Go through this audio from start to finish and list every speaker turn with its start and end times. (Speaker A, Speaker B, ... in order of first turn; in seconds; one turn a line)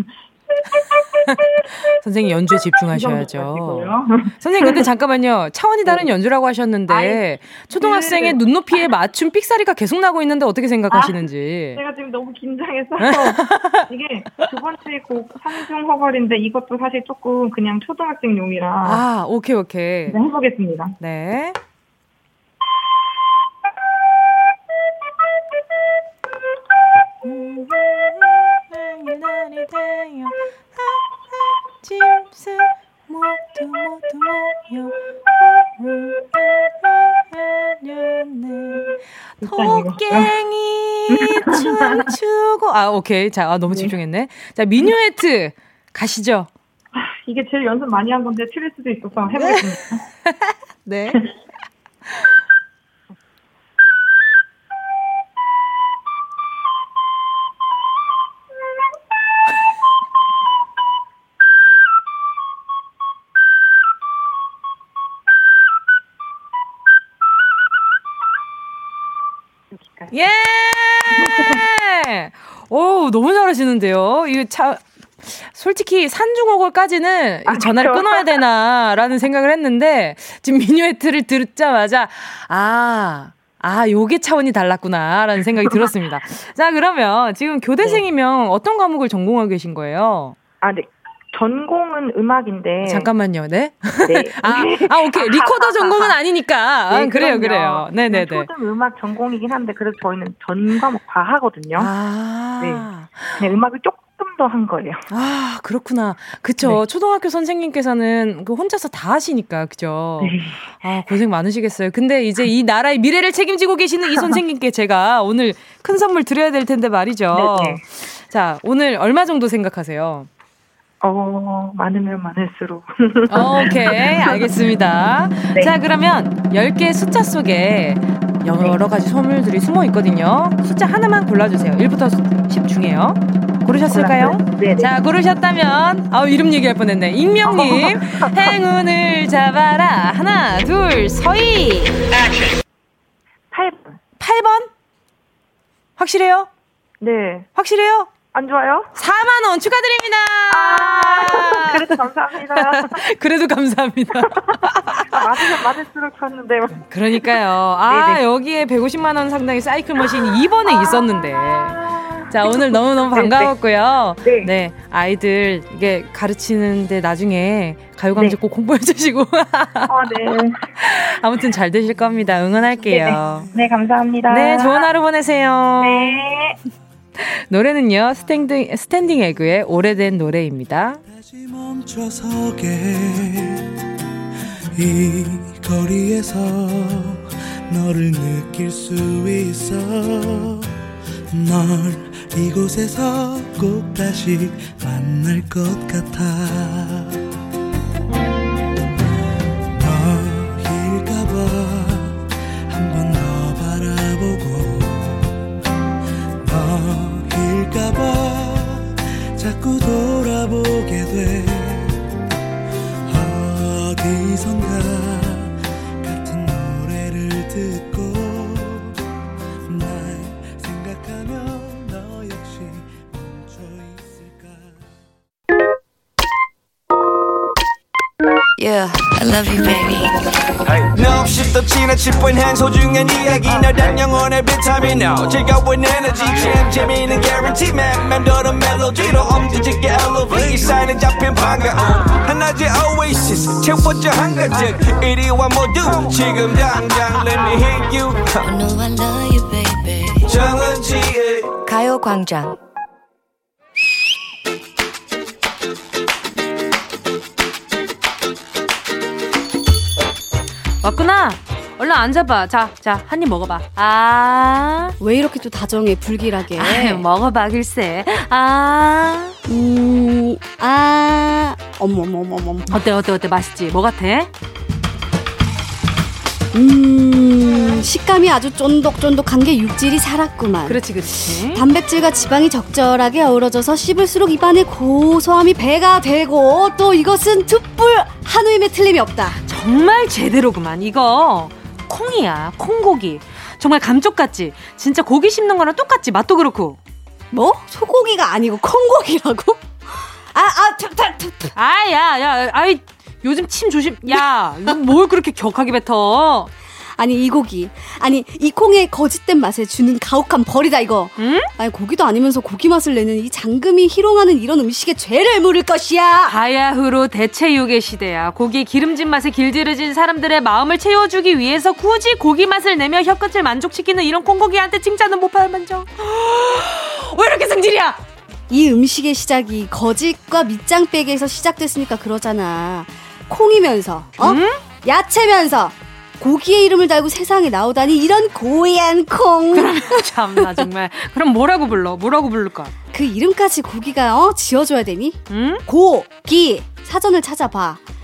Speaker A: 1.1-11.8
Speaker B: 2.9-4.8
Speaker B: 6.9-7.2
Speaker B: 7.7-8.4
Speaker B: 10.9-11.2
Speaker B: 11.8-19.0
Speaker A: 13.0-13.9
Speaker A: 18.8-20.2
Speaker B: 20.1-20.9
Speaker A: 21.0-21.6
Speaker A: 27.2-46.5
Speaker B: 39.4-40.3
Speaker B: 41.1-42.1
Speaker B: 46.9-50.0
Speaker A: 50.2-51.2
Speaker A: 70.1-90.4
Speaker B: 71.2-71.6
Speaker B: 77.5-78.4
Speaker B: 90.6-93.1
Speaker A: 92.8-98.5
Speaker B: 94.1-96.2
Speaker B: 96.9-101.9
Speaker A: 101.8-103.5
Speaker B: 102.6-102.9
Speaker B: 103.4-105.0
Speaker A: 105.1-120.3
Speaker B: 110.2-110.5
Speaker B: 117.3-117.8
Speaker B: 121.0-124.4
Speaker A: 123.3-142.0
Speaker B: 133.9-134.9
Speaker B: 137.5-138.5
Speaker B: 143.5-144.0
Speaker A: 144.2-144.7
Speaker A: 146.0-146.5
Speaker B: 147.0-147.5
Speaker A: 147.6-148.1
Speaker B: 148.3-148.9
Speaker A: 148.9-151.9
Speaker B: 150.5-153.0
Speaker A: 152.5-155.6
Speaker B: 154.3-157.3
Speaker A: 156.8-173.5
Speaker B: 157.9-158.2
Speaker B: 162.1-163.5
Speaker B: 164.2-164.5
Speaker B: 169.9-170.6
Speaker B: 172.9-174.9
Speaker A: 174.3-176.2
Speaker B: 175.8-176.6
Speaker A: 177.2-181.0
Speaker C: 181.1-183.7
Speaker C: 184.8-190.8
Speaker C: 191.3-197.2
Speaker C: 199.7-205.4
Speaker C: 206.4-212.0
Speaker C: 213.1-219.0
Speaker C: 219.7-224.9
Speaker D: 228.6-230.3
Speaker E: 230.7-248.4
Speaker D: 248.4-250.3
Speaker E: 250.3-251.5
Speaker D: 251.6-252.6
Speaker A: 260.8-264.9
Speaker F: 265.0-267.0
Speaker A: 266.5-269.4
Speaker F: 269.4-272.8
Speaker A: 272.7-274.3
Speaker F: 276.5-289.4
Speaker A: 280.7-281.6
Speaker A: 289.4-296.8
Speaker F: 297.3-301.5
Speaker A: 301.5-306.5
Speaker F: 306.9-316.4
Speaker A: 311.2-311.5
Speaker A: 316.3-328.0
Speaker F: 328.5-340.7
Speaker A: 334.2-334.6
Speaker A: 339.5-342.7
Speaker F: 342.9-347.8
Speaker A: 345.3-345.6